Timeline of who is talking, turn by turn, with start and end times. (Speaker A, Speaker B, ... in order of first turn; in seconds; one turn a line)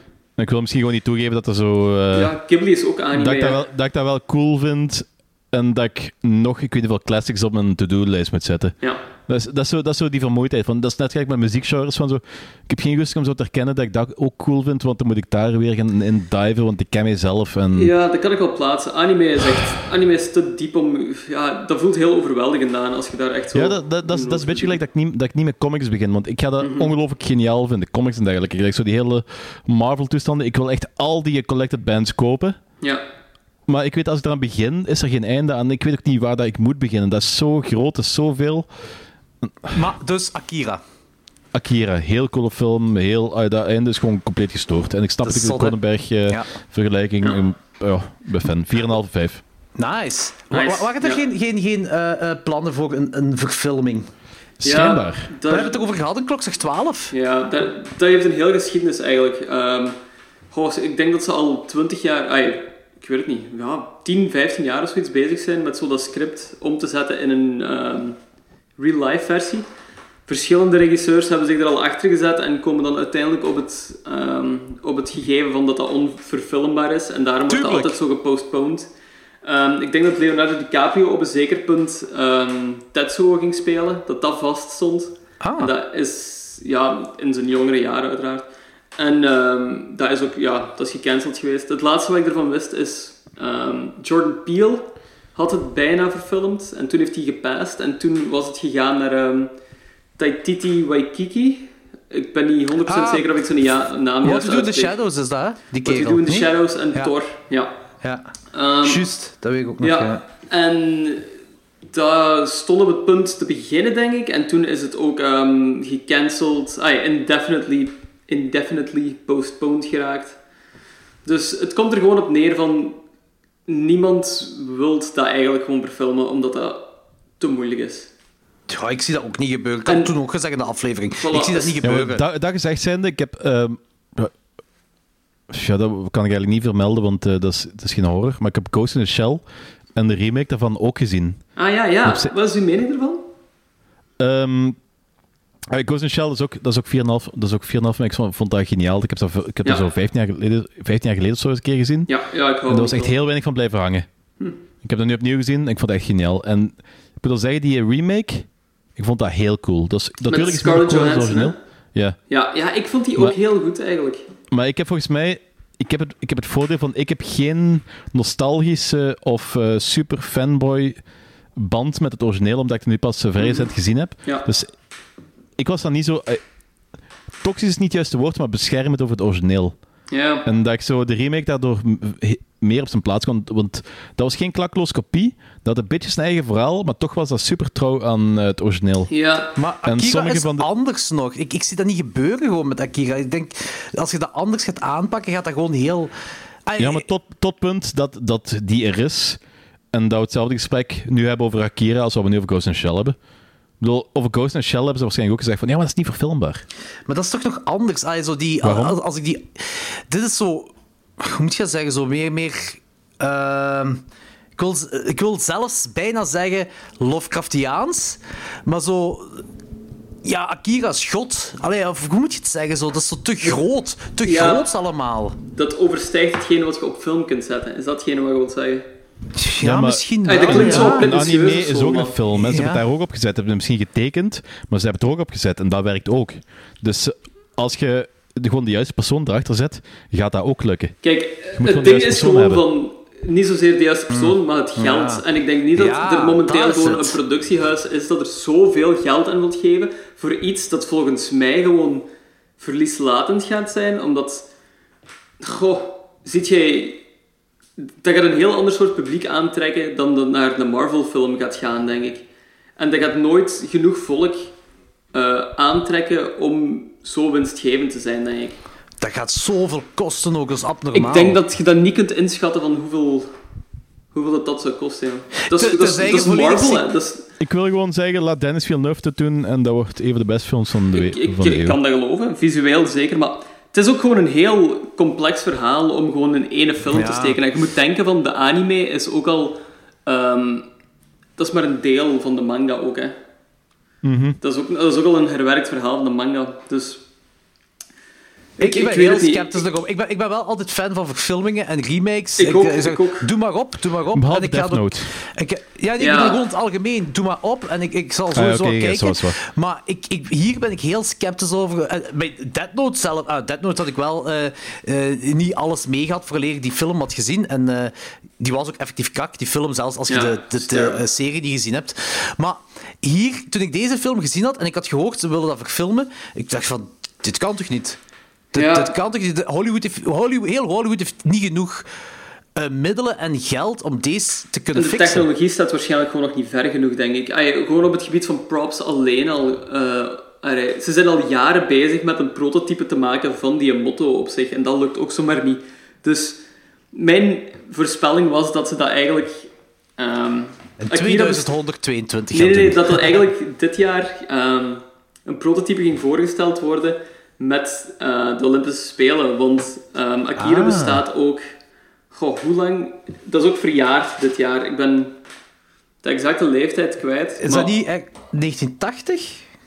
Speaker A: 0.4-2.3
Speaker B: 2.1-3.6
Speaker A: 3.1-8.8
Speaker A: 9.3-17.9
Speaker B: 17.7-24.8
Speaker A: 23.5-32.6
Speaker B: 26.6-26.9
Speaker A: 33.7-38.7
Speaker A: 39.4-39.8
Speaker C: 39.7-40.8
Speaker A: 41.5-49.4
Speaker C: 45.2-45.8
Speaker C: 49.8-54.1
Speaker B: 50.5-51.2
Speaker A: 54.6-55.3
Speaker B: 54.6-55.8
Speaker C: 55.5-57.1
Speaker B: 57.1-60.0
Speaker B: 60.5-68.2
Speaker B: 68.8-69.7
Speaker B: 70.3-78.9
Speaker C: 77.5-78.0
Speaker B: 79.4-99.5
Speaker C: 85.4-85.7
Speaker B: 100.2-105.0
Speaker C: 102.8-103.3
Speaker C: 104.2-107.1
Speaker B: 105.8-107.7
Speaker C: 108.0-110.2
Speaker B: 108.5-109.0
Speaker B: 109.8-111.3
Speaker B: 111.9-120.4
Speaker B: 121.2-123.0
Speaker B: 123.7-128.1
Speaker C: 128.7-132.2
Speaker B: 129.9-130.1
Speaker B: 131.2-131.8
Speaker A: 131.8-134.3
Speaker A: 135.5-139.4
Speaker A: 139.9-141.4
Speaker B: 141.6-143.3
Speaker A: 142.0-142.3
Speaker A: 144.2-144.8
Speaker A: 145.7-152.1
Speaker B: 152.1-153.1
Speaker A: 152.7-154.1
Speaker A: 154.8-162.2
Speaker B: 160.3-161.6
Speaker B: 162.3-164.2
Speaker A: 164.5-171.0
Speaker A: 171.6-174.7
Speaker B: 173.4-173.7
Speaker A: 175.6-176.4
Speaker A: 177.4-179.7
Speaker B: 180.1-180.4
Speaker A: 180.4-189.1
Speaker B: 189.1-189.5
Speaker C: 189.6-196.1
Speaker A: 189.8-190.7
Speaker C: 196.7-197.0
Speaker A: 196.8-199.4
Speaker A: 199.9-203.2
Speaker A: 203.8-206.6
Speaker C: 207.1-214.0
Speaker A: 208.6-209.0
Speaker C: 214.6-219.4
Speaker C: 220.2-225.4
Speaker B: 224.2-224.7
Speaker B: 225.5-228.8
Speaker C: 229.3-231.1
Speaker A: 229.6-240.9
Speaker B: 230.2-232.2
Speaker C: 232.3-232.8
Speaker B: 241.0-252.1
Speaker A: 241.6-242.6
Speaker C: 244.1-245.2
Speaker C: 245.7-247.2
Speaker B: 252.6-254.5
Speaker B: 255.4-257.0
Speaker B: 257.8-262.2
Speaker B: 262.8-264.5
Speaker B: 265.1-268.6
Speaker C: 269.0-271.4
Speaker B: 270.9-273.3
Speaker B: 274.1-277.2
Speaker C: 275.4-276.9
Speaker A: 277.4-281.8
Speaker B: 280.9-290.6
Speaker C: 286.9-287.4
Speaker B: 291.4-293.1
Speaker A: 294.0-294.4
Speaker B: 294.4-297.0
Speaker B: 298.6-299.6
Speaker C: 298.6-328.0
Speaker B: 302.4-303.3
Speaker A: 304.1-305.1
Speaker B: 306.0-306.4
Speaker A: 308.3-309.4
Speaker B: 320.1-321.0
Speaker C: 328.5-331.9
Speaker B: 328.5-328.9
Speaker C: 332.6-335.2
Speaker B: 334.7-346.4
Speaker B: 346.9-351.5
Speaker C: 350.8-353.1
Speaker B: 352.3-361.4
Speaker C: 360.4-361.0
Speaker B: 362.1-365.1
Speaker B: 366.0-367.7
Speaker C: 367.4-369.4